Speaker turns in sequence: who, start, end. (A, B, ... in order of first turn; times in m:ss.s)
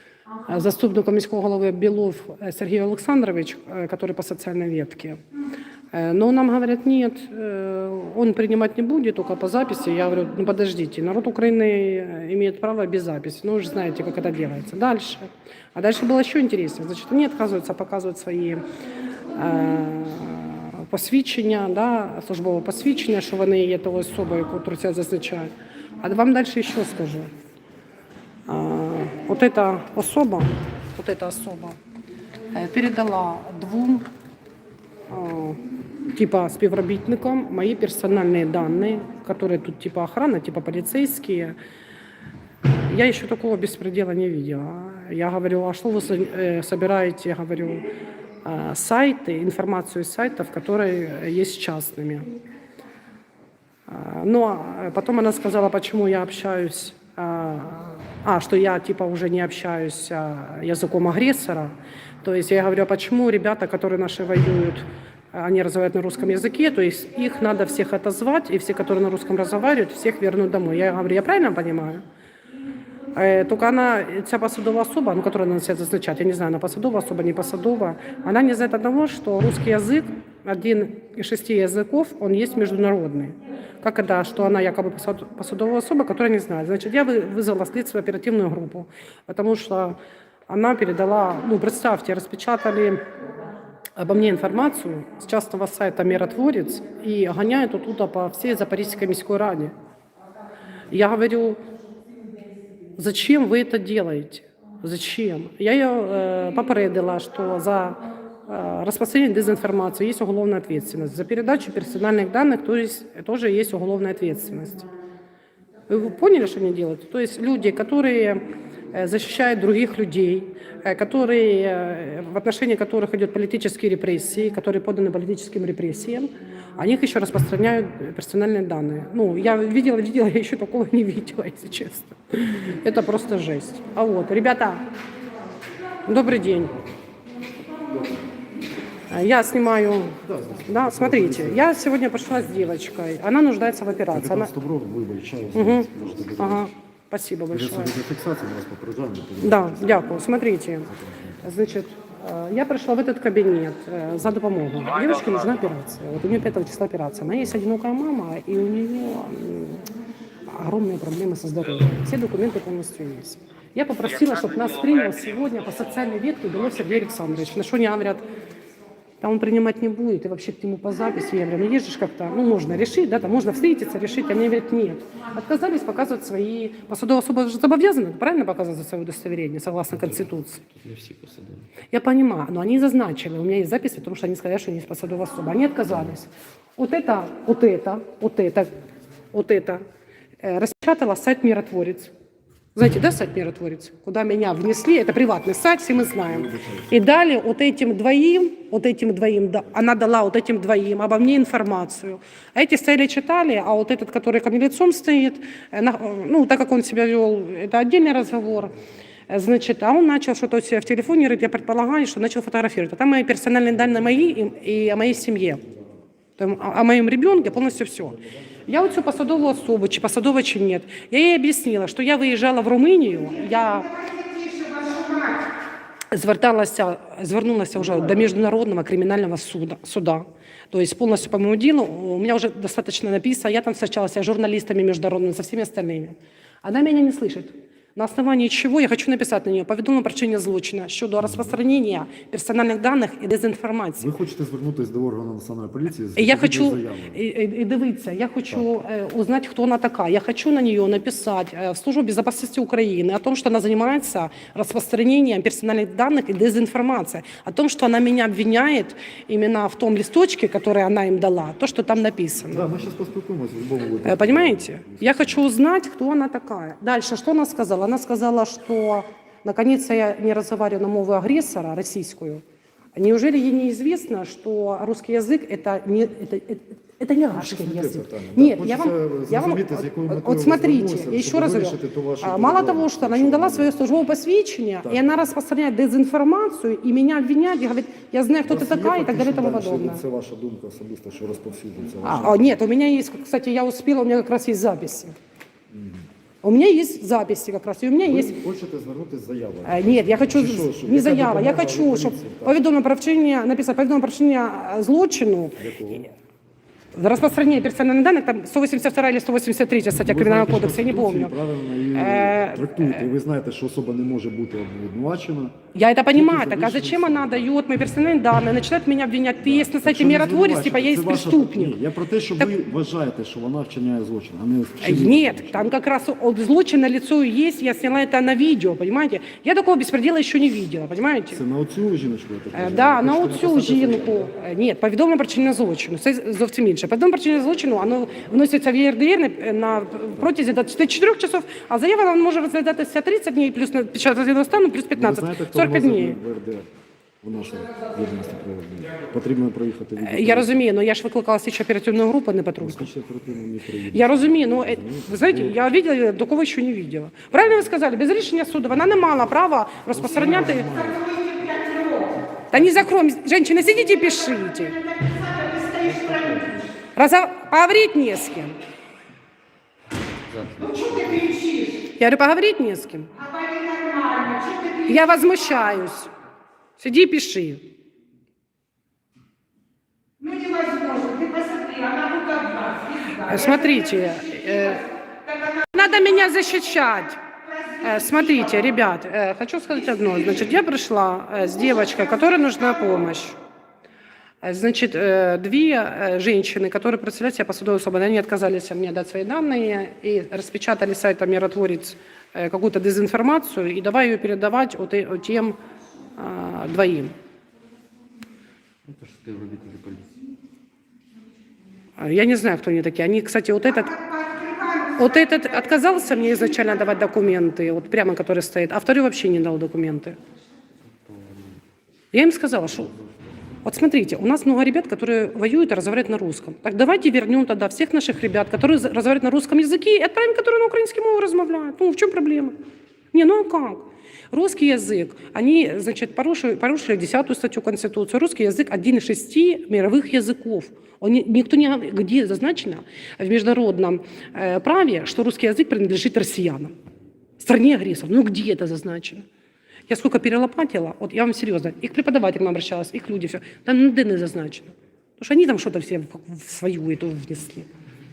0:00.5-0:05.2 A
0:05.9-0:18.6 A
0:19.3-0:27.3 A
0:28.5-0:31.8 A
0:32.5-0:34.0 A
0:35.1-0:35.6 A
0:36.1-0:41.6 A
0:42.9-0:47.8 A
0:48.4-0:52.3 A
0:53.9-1:12.0 A
1:13.1-1:33.0 A
1:34.0-1:39.7 A
1:40.9-1:41.6 A
1:43.0-1:54.9 A
1:55.9-2:14.8 A
2:16.1-2:16.8 A
2:19.1-2:24.5 A
2:20.2-2:21.7 B
2:24.1-2:26.7 B
2:25.5-2:27.9 A
2:27.5-2:30.2 B
2:29.4-2:30.9 A
2:30.9-2:31.5 B
2:31.4-2:39.8 A
2:40.5-2:48.2 A
2:49.2-3:00.6 A
2:59.9-3:01.7 C
3:01.9-3:08.7 A
3:09.3-3:09.8 A
3:10.4-3:12.1 A
3:12.8-3:28.7 A
3:16.2-3:16.9 B
3:29.3-3:35.6 A
3:36.4-3:44.3 A
3:44.3-3:45.2 D
3:46.1-4:04.1 A
4:01.2-4:01.6 B
4:04.0-4:07.2 B
4:06.2-4:22.7 A
4:22.5-4:25.4 B
4:24.0-4:32.4 A
4:33.0-4:50.0 A
4:37.3-4:43.8 B
4:44.8-4:45.1 B
4:48.4-4:52.6 B
4:52.0-4:55.2 A
4:55.7-4:56.1 B
4:56.4-4:58.4 A
4:58.0-5:02.6 B
4:59.6-5:05.6 A
5:05.6-5:06.1 B
5:06.9-5:11.4 A
5:10.0-5:15.6 B
5:11.9-5:13.1 A
5:15.7-5:21.8 A
5:16.1-5:17.5 B
5:19.4-5:25.7 B
5:24.8-5:31.4 A
5:31.3-5:34.3 B
5:32.5-5:46.2 A
5:45.0-5:46.7 B
5:47.2-5:50.6 B
5:50.0-5:52.9 A
5:52.6-5:55.7 B
5:53.9-6:00.9 A
5:59.9-6:01.3 B
6:01.4-6:02.1 D
6:02.5-6:05.2 A
6:05.2-6:05.6 D
6:05.4-6:06.8 C
6:06.9-6:08.6 A
6:10.3-6:11.6 C
6:11.8-6:13.3 A
6:13.3-6:14.8 D
6:14.7-6:16.1 A
6:16.8-6:17.7 A
6:20.2-6:23.0 D
6:23.0-6:33.4 A
6:34.4-6:45.6 A
6:46.2-6:47.1 A
6:48.8-6:50.2 C
6:52.0-7:00.2 A
7:00.9-7:01.6 C
7:02.1-7:02.9 A
7:03.6-7:12.6 A
7:13.1-7:26.8 A
7:27.4-7:29.2 A
7:29.9-7:37.7 A